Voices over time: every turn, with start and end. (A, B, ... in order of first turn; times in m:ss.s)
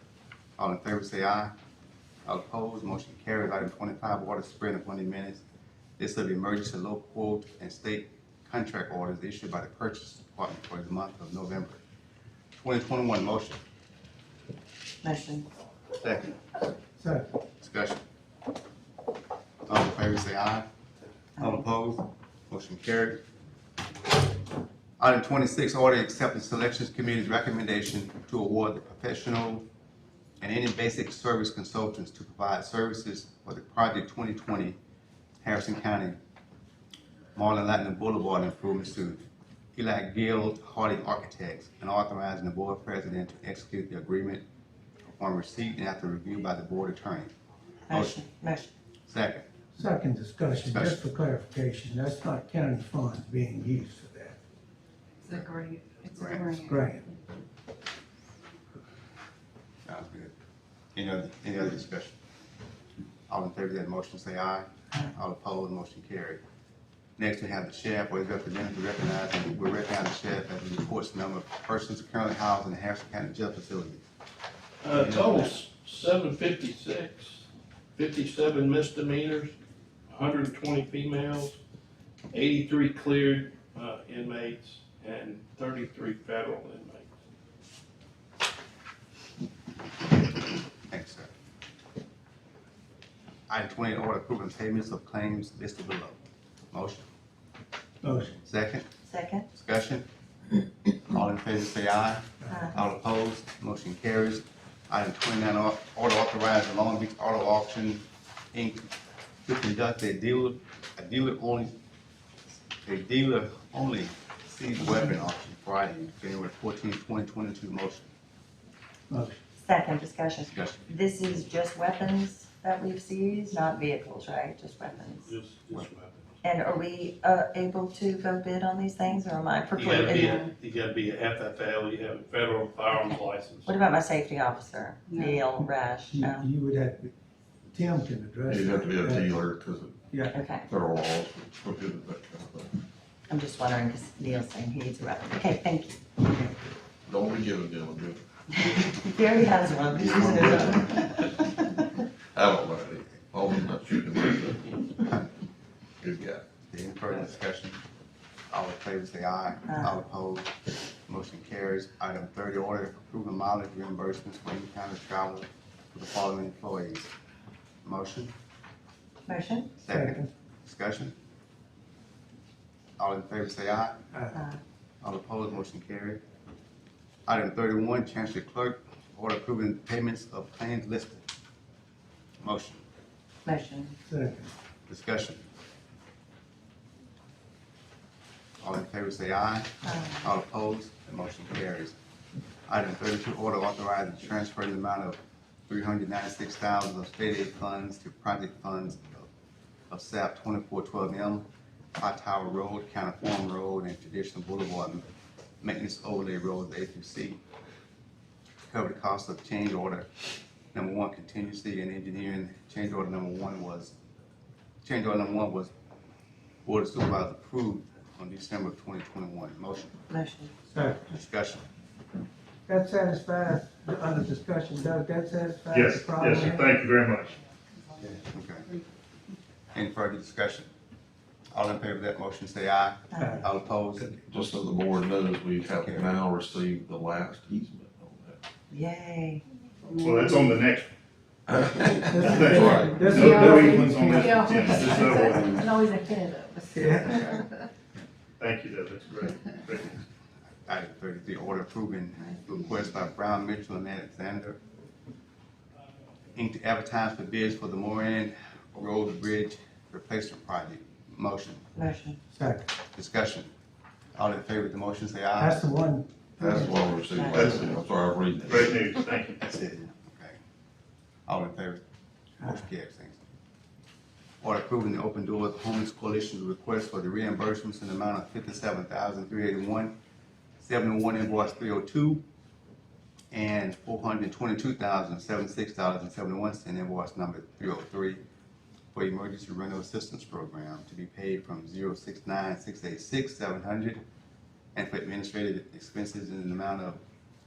0:00.6-0:01.5 A
0:02.2-0:05.4 A
0:06.0-0:11.8 A
0:12.5-0:13.6 A
0:15.0-0:15.5 B
0:16.0-0:16.4 A
0:17.0-0:17.3 C
0:17.6-0:18.0 A
0:19.7-0:20.6 A
0:21.4-0:21.6 B
0:21.4-0:23.2 A
0:25.0-0:29.6 A
0:30.4-0:34.8 A
0:35.4-0:36.2 A
0:37.3-0:44.4 A
0:45.1-0:47.3 A
0:47.9-0:48.7 B
0:47.9-0:48.2 A
0:49.1-0:49.5 A
0:49.7-0:54.4 C
0:50.6-0:51.0 A
0:55.2-0:57.0 D
0:56.1-0:56.6 A
0:56.6-0:57.0 C
0:59.8-1:00.3 A
1:00.9-1:02.2 A
1:03.3-1:06.4 A
1:07.2-1:14.0 A
1:14.8-1:19.5 E
1:14.9-1:15.5 A
1:20.1-1:21.6 E
1:22.3-1:27.1 E
1:30.9-1:31.3 A
1:33.5-1:36.2 A
1:36.7-1:37.1 A
1:38.0-1:38.4 C
1:38.4-1:38.9 A
1:39.0-1:39.5 B
1:39.5-1:40.0 A
1:41.1-1:48.9 A
1:42.5-1:42.8 B
1:49.4-1:51.8 A
1:52.8-1:58.1 A
1:59.1-1:59.4 C
1:59.6-2:05.3 B
2:00.5-2:00.9 A
2:05.3-2:06.3 E
2:06.4-2:10.4 B
2:09.7-2:13.7 E
2:10.2-2:10.5 D
2:12.9-2:16.5 B
2:15.1-2:15.4 D
2:16.1-2:17.1 C
2:17.7-2:19.3 C
2:18.5-2:20.1 F
2:20.1-2:20.3 C
2:20.3-2:20.7 B
2:20.7-2:22.8 F
2:23.3-2:26.0 B
2:26.2-2:26.7 C
2:27.0-2:28.2 F
2:28.6-2:31.2 B
2:30.0-2:30.8 F
2:30.3-2:31.0 A
2:32.3-2:34.8 F
2:36.0-2:36.4 F
2:36.6-2:37.8 A
2:38.5-2:40.5 A
2:39.6-2:40.0 B
2:41.1-2:47.1 A
2:47.8-2:48.3 A
2:49.3-2:49.8 B
2:49.8-2:51.1 A
2:49.9-2:50.3 C
2:53.0-2:54.0 A
2:54.1-2:54.4 C
2:54.3-2:54.6 B
2:55.0-2:56.2 A
2:57.2-3:01.2 A
3:02.4-3:02.8 A
3:03.4-3:04.0 B
3:04.0-3:04.5 C
3:04.9-3:05.4 A
3:08.6-3:12.0 A
3:09.8-3:10.3 B
3:12.7-3:19.3 A
3:19.9-3:25.0 A
3:25.6-3:27.4 A
3:28.7-3:30.1 A
3:30.7-3:34.0 A
3:34.8-3:35.7 A
3:36.6-3:40.0 A
3:40.1-3:40.5 B
3:40.7-3:41.1 C
3:41.1-3:41.7 A
3:42.7-3:46.7 C
3:45.7-3:47.4 G
3:48.3-3:48.7 A
3:49.7-3:50.7 A
3:51.5-3:54.1 A
3:53.1-3:53.4 B
3:53.2-3:54.2 C
3:54.3-3:58.4 F
3:55.7-3:56.2 A
3:58.7-3:59.4 B
3:59.8-4:00.6 D
4:00.0-4:00.9 G
4:01.5-4:03.0 F
4:02.1-4:05.0 C
4:02.2-4:05.7 G
4:02.5-4:07.5 D
4:06.7-4:07.3 C
4:08.4-4:10.0 G
4:10.6-4:14.6 A
4:16.3-4:21.6 A
4:21.7-4:22.2 B
4:22.3-4:22.7 C
4:22.9-4:23.5 A
4:24.1-4:25.6 A
4:25.4-4:27.8 C
4:26.4-4:29.0 F
4:27.1-4:27.6 B
4:28.5-4:29.3 E
4:28.9-4:29.3 G
4:29.4-4:30.4 A
4:31.3-4:31.8 A
4:32.4-4:33.2 A
4:34.4-4:39.9 A
4:40.6-4:42.2 A
4:43.3-4:48.2 A
4:48.9-4:54.0 A
4:54.7-4:57.0 A